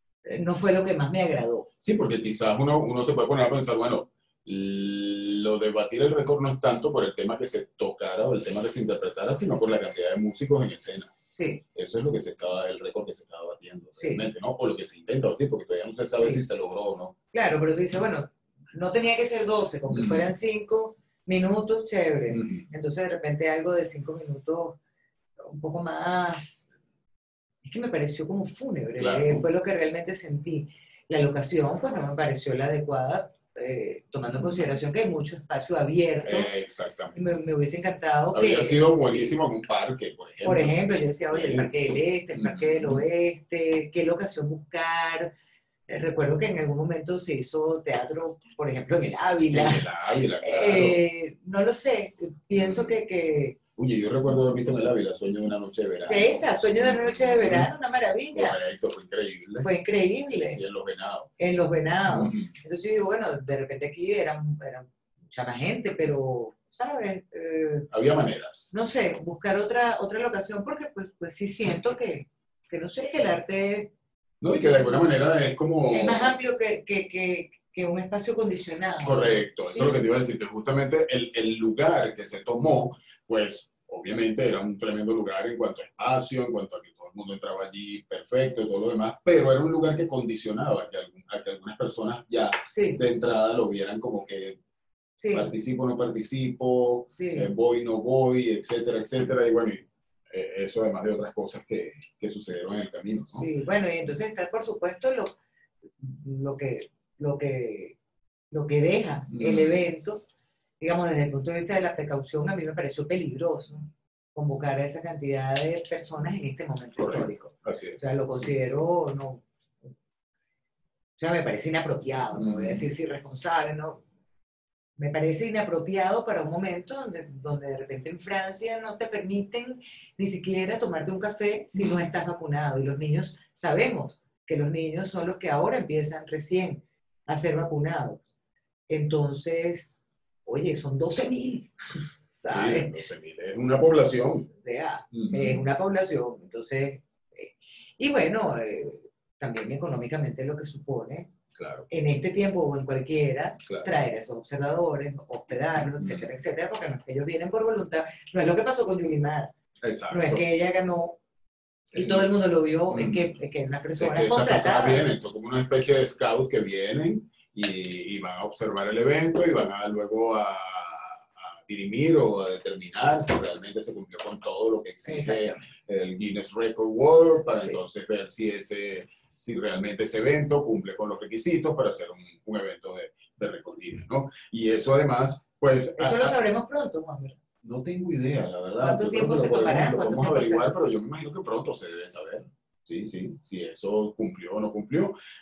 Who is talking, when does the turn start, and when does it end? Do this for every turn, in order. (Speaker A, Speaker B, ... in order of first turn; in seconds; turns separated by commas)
Speaker A: 0.2-1.7, Speaker B: 1.8-11.1, Speaker A: 11.3-11.6, Speaker B: 11.7-17.1, Speaker A: 14.0-14.3, Speaker A: 16.1-16.4, Speaker A: 17.3-24.8, Speaker B: 19.9-20.3, Speaker B: 22.3-22.6, Speaker A: 25.4-26.6, Speaker A: 27.6-36.5, Speaker B: 29.0-29.4, Speaker B: 34.3-34.7, Speaker B: 36.2-37.3, Speaker A: 37.1-39.4, Speaker B: 38.3-43.0, Speaker A: 40.4-45.3, Speaker A: 45.9-49.8, Speaker B: 49.5-51.0, Speaker A: 50.4-53.6, Speaker B: 52.5-53.0, Speaker B: 53.8-57.7, Speaker A: 56.0-58.6, Speaker B: 58.3-59.7, Speaker A: 59.6-60.6, Speaker B: 60.3-61.3, Speaker A: 61.4-67.8, Speaker B: 62.1-62.5, Speaker B: 67.9-68.7, Speaker A: 68.7-73.9, Speaker B: 74.4-76.3, Speaker A: 75.9-80.0, Speaker B: 79.0-94.6, Speaker A: 92.7-93.0, Speaker A: 95.2-95.5, Speaker B: 95.3-103.5, Speaker A: 97.1-97.5, Speaker A: 103.3-105.4, Speaker A: 106.0-108.0, Speaker A: 108.5-110.2, Speaker B: 109.3-109.8, Speaker A: 110.8-119.4, Speaker B: 117.0-118.5, Speaker A: 121.2-124.0, Speaker B: 122.3-122.9, Speaker A: 125.0-138.3, Speaker B: 131.7-132.1, Speaker A: 138.9-141.7, Speaker A: 142.3-142.9, Speaker B: 142.5-144.5, Speaker A: 144.6-151.3, Speaker B: 145.1-145.7, Speaker B: 151.5-151.9, Speaker A: 151.9-159.5, Speaker B: 156.0-156.3, Speaker B: 159.8-160.4, Speaker A: 160.1-161.2, Speaker B: 161.9-162.2, Speaker A: 161.9-165.1, Speaker B: 162.9-163.3, Speaker B: 164.0-186.3, Speaker A: 175.0-175.7, Speaker A: 186.0-187.4, Speaker B: 187.6-195.1, Speaker A: 188.8-190.7